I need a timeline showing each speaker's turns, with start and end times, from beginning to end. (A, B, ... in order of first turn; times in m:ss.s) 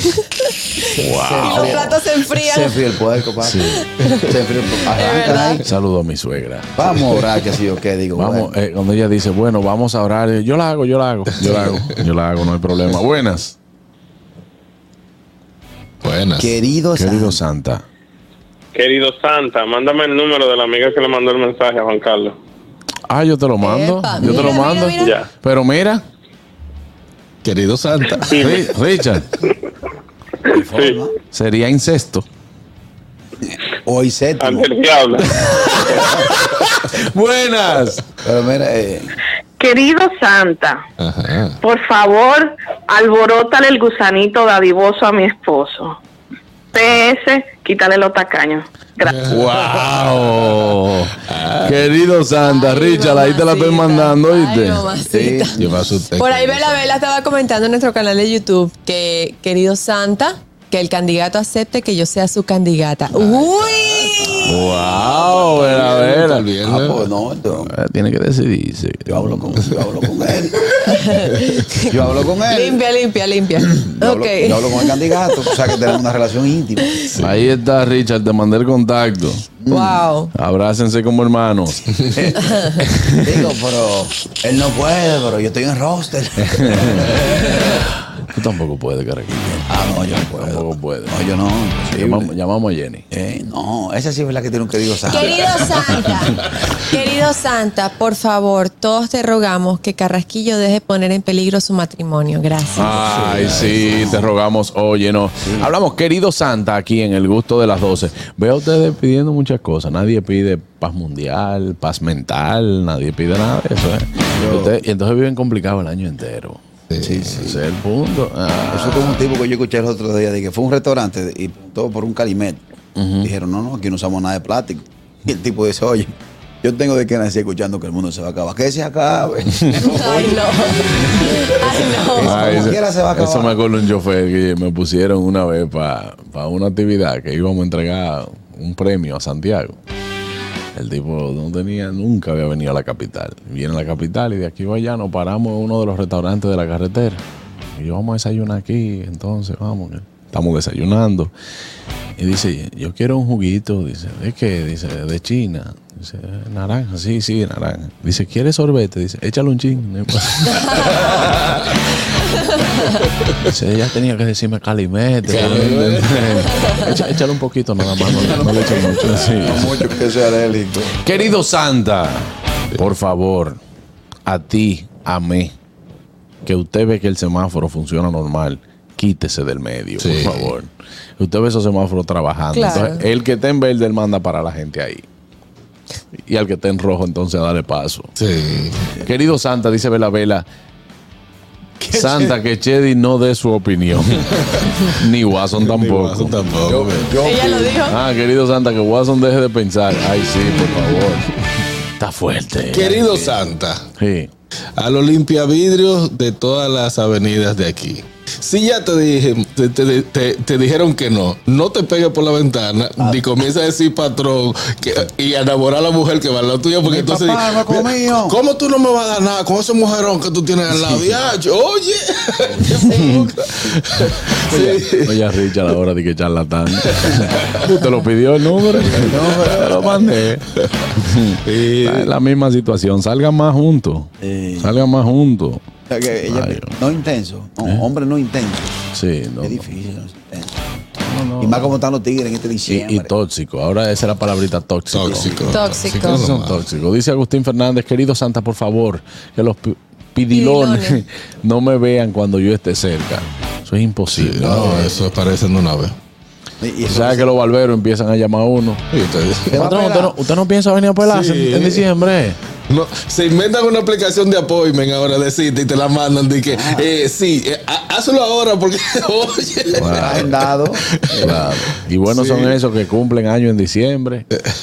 0:00.9-0:05.6 A
0:00.9-0:01.9 B
0:01.4-0:02.8 C
0:03.4-0:03.8 B
0:04.9-0:05.6 C
0:05.6-0:06.8 B
0:06.8-0:08.5 A
0:08.2-0:13.6 B
0:16.0-0:16.6 D
0:16.4-0:17.4 A
0:17.0-0:17.8 B
0:18.7-0:22.4 E
0:23.1-0:26.0 B
0:23.6-0:25.1 C
0:24.5-0:25.3 E
0:27.4-0:28.5 D
0:28.2-0:28.7 E
0:28.4-0:29.3 B
0:30.5-0:31.1 A
0:30.7-0:31.0 E
0:31.3-0:32.2 B
0:33.5-0:34.7 A
0:34.4-0:35.5 E
0:35.4-0:38.0 B
0:35.7-0:36.3 A
0:38.2-0:39.1 A
0:39.6-0:40.8 F
0:41.0-0:41.6 D
0:41.6-0:46.0 F
0:46.7-0:49.2 F
0:49.1-0:49.4 D
0:49.3-0:54.9 B
0:51.3-0:51.8 D
0:52.4-0:55.6 C
0:55.0-0:55.9 A
0:55.6-0:56.8 D
0:56.2-1:05.7 C
1:03.1-1:07.1 D
1:04.2-1:04.6 A
1:04.5-1:06.5 B
1:06.6-1:07.7 A
1:07.6-1:09.6 B
1:09.1-1:10.8 A
1:10.8-1:15.0 C
1:11.9-1:12.8 A
1:13.8-1:17.0 A
1:17.1-1:17.5 D
1:17.2-1:19.5 B
1:19.6-1:20.1 A
1:19.7-1:20.3 C
1:20.3-1:21.8 B
1:22.1-1:22.6 A
1:22.8-1:23.0 B
1:23.2-1:27.1 A
1:26.5-1:27.1 B
1:28.3-1:29.7 B
1:29.7-1:32.3 A
1:30.3-1:31.2 B
1:31.9-1:33.1 B
1:33.1-1:36.2 A
1:35.1-1:43.3 C
1:42.8-1:56.6 B
1:42.8-1:44.3 A
1:45.4-1:45.7 A
1:54.4-1:54.8 A
1:56.9-1:57.3 D
1:57.0-1:57.6 A
1:57.4-1:59.3 B
1:58.7-2:02.6 A
2:03.0-2:03.3 B
2:03.2-2:13.6 A
2:09.8-2:12.7 C
2:12.2-2:19.8 B
2:20.8-2:27.2 B
2:27.8-2:31.3 B
2:32.2-2:41.6 B
2:43.4-2:49.8 B
2:45.3-2:46.9 D
2:48.2-2:49.3 D
2:49.4-2:51.0 A
2:51.0-2:53.6 B
2:54.3-2:55.5 B
2:56.4-3:05.1 B
3:00.0-3:00.5 D
3:02.5-3:03.0 C
3:06.2-3:08.1 B
3:08.2-3:08.9 D
3:09.0-3:10.5 B
3:11.8-3:12.4 A
3:11.9-3:14.3 B
3:14.3-3:14.9 D
3:14.8-3:16.6 B
3:15.6-3:17.1 D
3:16.6-3:17.8 A
3:17.2-3:18.0 C
3:17.9-3:21.3 B
3:22.0-3:23.4 B
3:22.7-3:23.8 D
3:24.0-3:24.3 B
3:24.8-3:45.2 D
3:36.8-3:38.4 A
3:42.9-3:43.3 B
3:44.5-3:55.6 B
3:46.8-3:47.6 D
3:48.9-3:49.9 A
3:51.4-3:52.1 D
3:54.2-3:54.8 A
3:55.9-3:58.8 A
3:56.2-3:56.8 B
3:58.9-3:59.7 B
3:59.4-4:00.6 A
4:01.0-4:01.8 B
4:01.4-4:03.1 A
4:02.7-4:14.9 B
4:04.9-4:06.6 D
4:05.1-4:05.4 A
4:05.5-4:06.3 C
4:10.3-4:11.0 C
4:14.1-4:16.0 D
4:14.5-4:14.9 A
4:16.6-4:17.3 A
4:16.9-4:18.8 B
4:18.9-4:19.6 D
4:19.5-4:20.1 A
4:19.5-4:22.4 B
4:21.0-4:21.9 D
4:22.7-4:31.4 D
4:26.5-4:26.9 A
4:29.8-4:30.3 B
4:29.9-4:31.4 A
4:31.2-4:34.3 B
4:32.1-4:32.6 D